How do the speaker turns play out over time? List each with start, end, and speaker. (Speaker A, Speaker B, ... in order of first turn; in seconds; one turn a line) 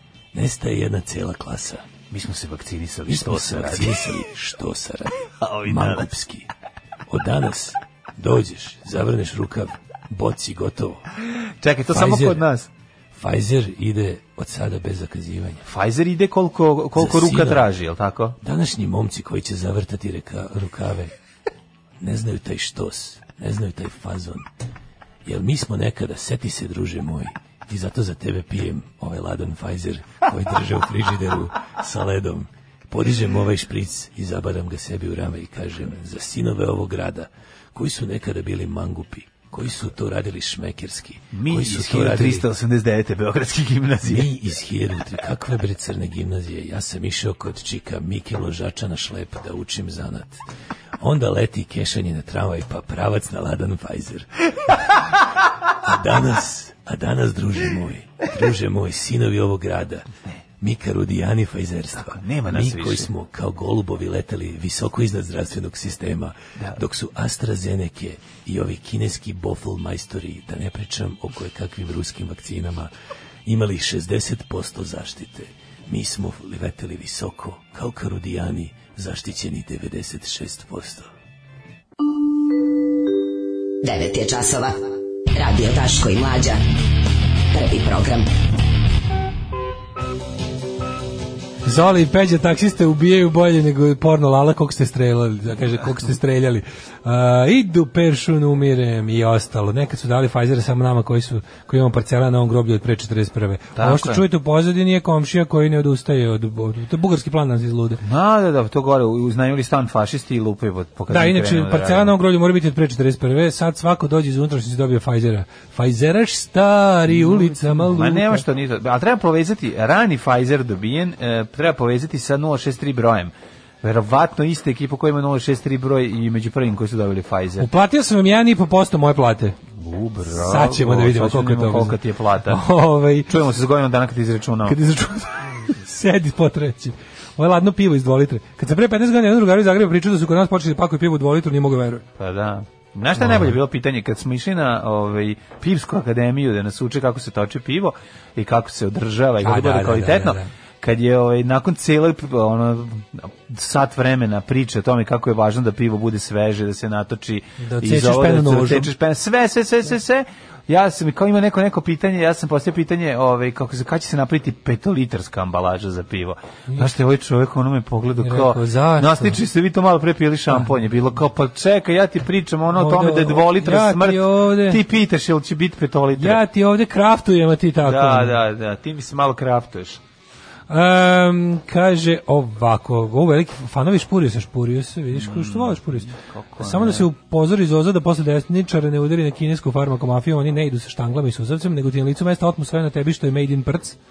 Speaker A: 0.3-1.8
Speaker B: 2.1-4.2
Speaker A: 3.1-6.5
Speaker B: 5.4-6.1
Speaker A: 7.1-11.0
Speaker B: 11.4-12.7
Speaker A: 11.9-12.4
Speaker A: 13.1-15.6
Speaker B: 15.6-18.4
Speaker A: 16.9-17.6
Speaker A: 18.4-21.1
Speaker A: 22.0-24.4
Speaker A: 25.2-42.5
Speaker B: 41.3-44.3
Speaker A: 44.0-50.4
Speaker A: 51.0-54.7
Speaker A: 55.8-60.0
Speaker A: 60.6-72.9
Speaker B: 62.0-63.1
Speaker A: 73.5-81.1
Speaker C: 83.8-86.6
Speaker C: 87.5-88.3
Speaker A: 91.7-108.0
Speaker B: 103.8-104.2
Speaker B: 108.0-112.1
Speaker A: 111.1-118.4
Speaker B: 117.1-127.7
Speaker A: 127.6-129.6
Speaker B: 129.7-132.6
Speaker A: 130.3-133.3
Speaker B: 133.3-134.8
Speaker A: 134.7-142.0
Speaker B: 142.2-176.4
Speaker A: 143.2-143.6
Speaker A: 149.4-150.5
Speaker A: 157.6-158.9
Speaker A: 168.2-169.4
Speaker A: 172.7-174.8
Speaker A: 176.2-178.3
Speaker B: 177.8-180.0
Speaker A: 180.7-194.0
Speaker B: 185.1-187.1